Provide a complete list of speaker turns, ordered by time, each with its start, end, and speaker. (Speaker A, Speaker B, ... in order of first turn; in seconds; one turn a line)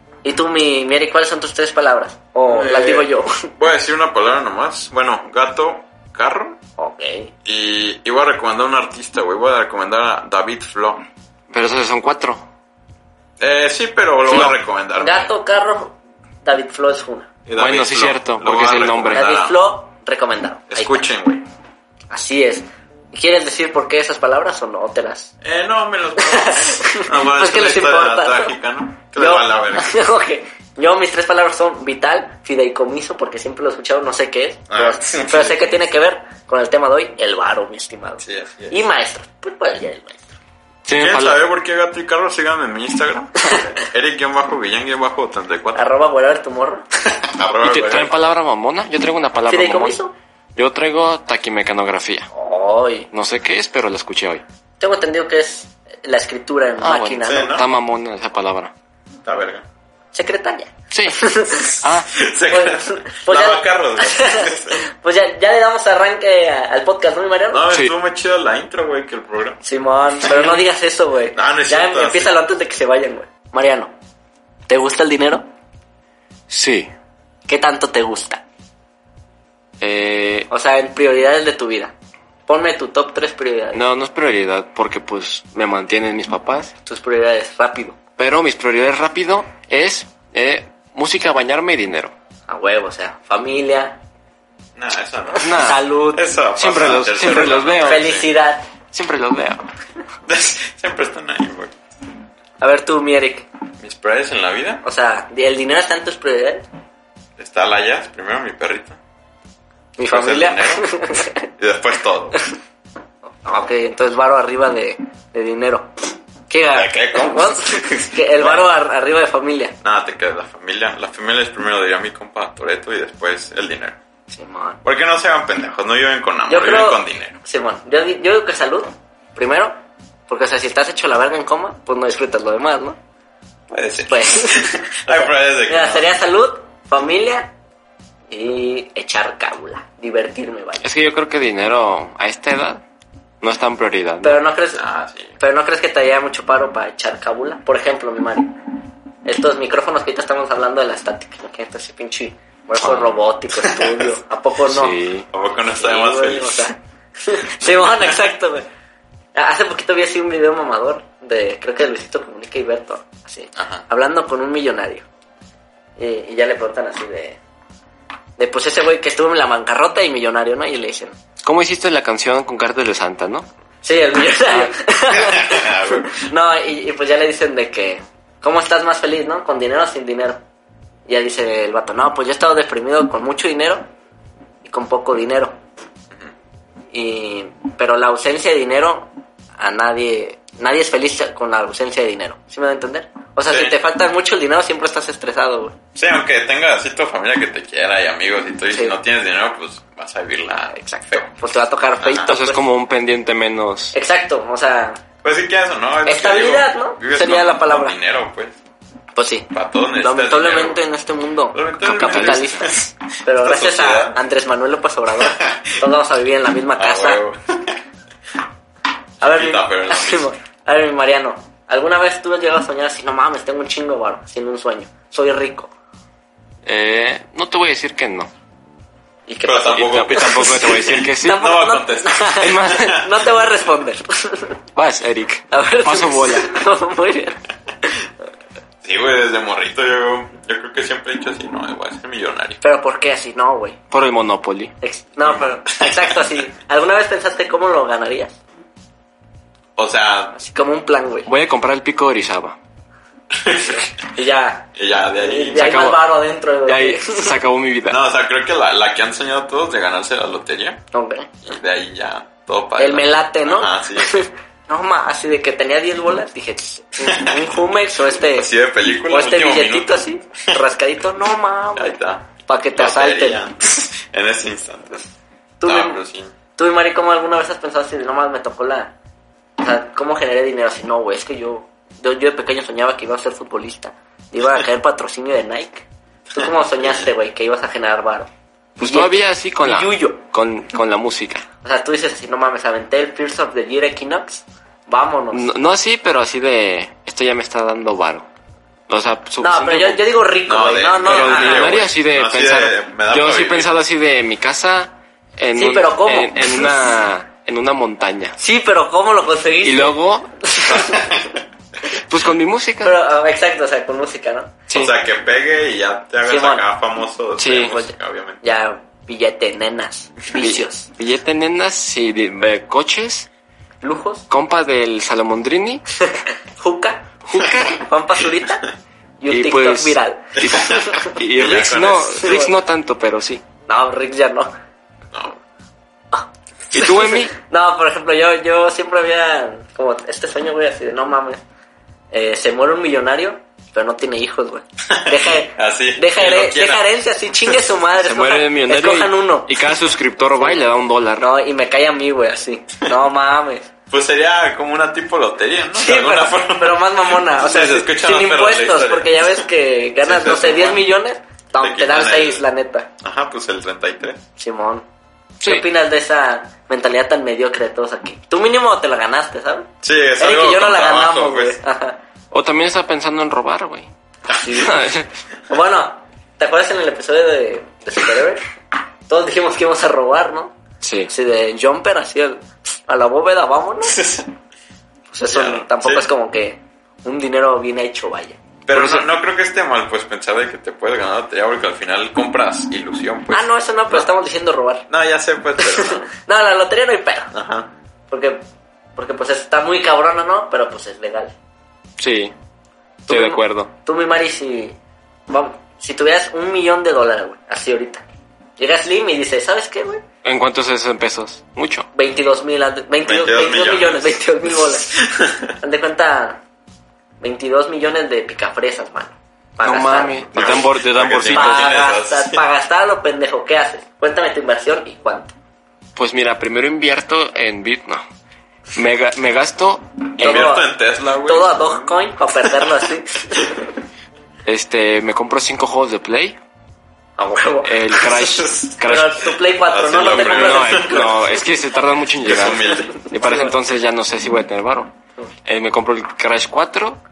Speaker A: 0.2-3.5
Speaker B: 2.5-6.6
Speaker A: 6.8-7.3
Speaker B: 7.4-11.0
Speaker C: 11.5-12.4
Speaker B: 13.4-15.3
Speaker C: 14.3-14.6
Speaker A: 15.0-17.3
Speaker B: 17.4-19.6
Speaker C: 17.6-19.3
Speaker A: 19.1-21.0
Speaker B: 20.7-21.4
Speaker A: 22.1-25.3
Speaker B: 25.4-30.0
Speaker A: 26.2-28.6
Speaker A: 29.1-40.3
Speaker B: 34.7-35.8
Speaker B: 38.2-38.8
Speaker C: 40.9-41.4
Speaker B: 41.0-45.9
Speaker A: 43.4-43.7
Speaker A: 45.7-46.9
Speaker B: 47.1-48.1
Speaker C: 47.6-50.0
Speaker A: 49.5-50.1
Speaker C: 50.5-52.3
Speaker A: 52.3-53.1
Speaker C: 53.1-54.4
Speaker A: 54.8-57.5
Speaker C: 56.8-58.7
Speaker B: 57.2-57.6
Speaker B: 59.2-59.6
Speaker A: 60.1-61.8
Speaker C: 60.9-62.1
Speaker B: 62.1-64.8
Speaker A: 62.5-67.7
Speaker B: 67.5-69.6
Speaker A: 69.6-73.9
Speaker B: 71.3-72.4
Speaker A: 74.7-75.5
Speaker C: 76.5-76.9
Speaker A: 77.5-78.4
Speaker C: 79.8-80.5
Speaker A: 80.5-81.9
Speaker A: 82.5-83.8
Speaker C: 83.7-86.7
Speaker A: 86.8-88.0
Speaker C: 88.2-92.1
Speaker A: 92.5-94.0
Speaker B: 94.8-95.5
Speaker A: 95.3-96.3
Speaker C: 95.4-95.8
Speaker B: 96.1-98.2
Speaker C: 96.5-98.1
Speaker A: 97.8-98.6
Speaker C: 98.9-99.7
Speaker B: 100.3-101.7
Speaker A: 102.6-103.5
Speaker B: 103.8-104.8
Speaker A: 104.8-106.6
Speaker B: 107.4-109.0
Speaker A: 110.0-111.5
Speaker B: 110.1-110.9
Speaker B: 111.5-112.4
Speaker A: 113.4-115.9
Speaker A: 116.5-119.8
Speaker B: 116.7-118.7
Speaker B: 119.8-124.0
Speaker A: 124.3-124.8
Speaker B: 124.8-127.4
Speaker A: 126.5-129.7
Speaker A: 130.3-133.0
Speaker B: 133.7-136.1
Speaker A: 134.1-137.5
Speaker A: 138.3-140.8
Speaker C: 140.8-142.8
Speaker C: 143.4-144.4
Speaker A: 144.2-144.8
Speaker B: 144.7-145.3
Speaker A: 145.4-148.6
Speaker A: 149.2-155.0
Speaker C: 152.8-153.2
Speaker C: 154.7-155.3
Speaker B: 155.3-156.7
Speaker A: 155.7-158.6
Speaker A: 159.3-165.1
Speaker B: 163.6-163.8
Speaker A: 166.0-167.4
Speaker A: 168.4-171.2
Speaker C: 171.4-173.5
Speaker A: 173.8-180.4
Speaker C: 174.4-174.7
Speaker B: 175.1-176.2
Speaker A: 181.1-183.8
Speaker A: 184.6-185.5
Speaker A: 186.9-195.8
Speaker B: 195.9-201.3
Speaker A: 198.7-198.9
Speaker A: 200.8-202.6
Speaker C: 202.3-203.9
Speaker A: 203.9-205.0
Speaker B: 205.2-208.6
Speaker A: 206.1-207.9
Speaker A: 209.2-209.5
Speaker B: 209.5-210.8
Speaker A: 210.0-217.2
Speaker B: 211.5-212.8
Speaker C: 211.9-212.7
Speaker B: 213.4-214.2
Speaker B: 215.2-215.7
Speaker B: 216.8-217.7
Speaker B: 219.2-220.3
Speaker A: 219.2-225.7
Speaker C: 226.6-228.3
Speaker A: 229.3-234.6
Speaker B: 229.4-233.2
Speaker C: 229.7-231.5
Speaker C: 232.4-233.0
Speaker C: 234.7-236.6
Speaker A: 235.5-237.9
Speaker B: 238.8-242.6
Speaker A: 242.6-243.8
Speaker C: 243.9-244.7
Speaker A: 244.8-248.4
Speaker B: 245.2-246.3
Speaker B: 249.8-250.3
Speaker A: 250.3-251.3
Speaker C: 251.3-252.6
Speaker B: 253.3-253.8
Speaker A: 254.0-257.4
Speaker B: 254.8-255.7
Speaker C: 255.5-258.0
Speaker B: 257.9-260.8
Speaker A: 260.9-261.3
Speaker B: 261.4-264.3
Speaker A: 262.8-268.5
Speaker B: 267.1-267.5
Speaker B: 268.1-270.0
Speaker A: 269.1-273.4
Speaker B: 271.7-275.1
Speaker A: 275.6-276.0
Speaker B: 275.6-276.3
Speaker A: 276.6-278.9
Speaker A: 279.6-290.2
Speaker B: 286.4-287.1
Speaker C: 288.8-291.4
Speaker A: 291.6-295.5
Speaker C: 295.3-298.3
Speaker C: 298.9-300.1
Speaker A: 299.4-301.8
Speaker B: 300.5-303.7
Speaker C: 301.0-308.4
Speaker A: 305.5-306.9
Speaker A: 308.4-311.2
Speaker C: 309.6-311.0
Speaker B: 310.9-311.3
Speaker C: 311.9-312.9
Speaker A: 312.8-314.5
Speaker C: 314.7-314.9
Speaker B: 314.7-318.4
Speaker A: 316.2-316.6
Speaker C: 317.4-317.8
Speaker A: 317.6-320.9
Speaker C: 320.4-323.3
Speaker A: 323.8-324.2
Speaker C: 324.3-325.8
Speaker A: 326.1-328.7
Speaker C: 327.2-327.8
Speaker A: 329.2-331.2
Speaker C: 329.3-333.4
Speaker B: 330.4-332.5
Speaker A: 332.2-332.5
Speaker A: 333.7-334.5
Speaker B: 335.1-335.4
Speaker A: 336.1-341.4
Speaker C: 336.7-337.3
Speaker A: 342.1-349.7
Speaker B: 344.9-347.6
Speaker C: 348.0-351.3
Speaker A: 351.2-353.7
Speaker B: 353.9-359.4
Speaker A: 355.7-362.9
Speaker B: 360.0-360.9
Speaker B: 361.6-362.4
Speaker B: 363.0-364.2
Speaker A: 364.4-364.8
Speaker C: 365.4-365.6
Speaker A: 365.4-372.0
Speaker B: 369.8-371.6
Speaker C: 372.3-373.9
Speaker B: 374.3-374.9
Speaker A: 374.4-374.8
Speaker C: 374.5-375.1
Speaker A: 375.5-378.5
Speaker A: 379.1-380.5
Speaker C: 380.8-381.1
Speaker A: 381.1-384.0
Speaker B: 383.9-384.2
Speaker A: 385.1-389.0
Speaker B: 385.3-386.1
Speaker B: 388.7-394.1
Speaker A: 393.3-394.9
Speaker B: 394.9-396.1
Speaker A: 395.6-397.3
Speaker B: 397.3-397.7
Speaker A: 398.1-398.4
Speaker A: 398.9-401.3
Speaker C: 402.0-402.3
Speaker A: 403.1-404.8
Speaker C: 403.1-403.7
Speaker A: 405.3-408.0
Speaker A: 408.6-410.0
Speaker C: 410.2-411.9
Speaker A: 411.9-416.4
Speaker B: 413.0-414.2
Speaker B: 414.9-415.5
Speaker A: 417.2-420.6
Speaker C: 419.6-421.8
Speaker B: 420.3-422.4
Speaker A: 421.3-425.3
Speaker C: 425.9-428.0
Speaker C: 428.7-430.5
Speaker B: 430.2-432.6
Speaker A: 430.2-430.7
Speaker A: 431.2-433.7
Speaker C: 434.4-436.4
Speaker A: 437.2-441.4
Speaker C: 437.6-439.4
Speaker B: 439.7-441.2
Speaker C: 440.1-444.9
Speaker B: 442.2-443.0
Speaker A: 442.7-443.5
Speaker C: 445.4-447.0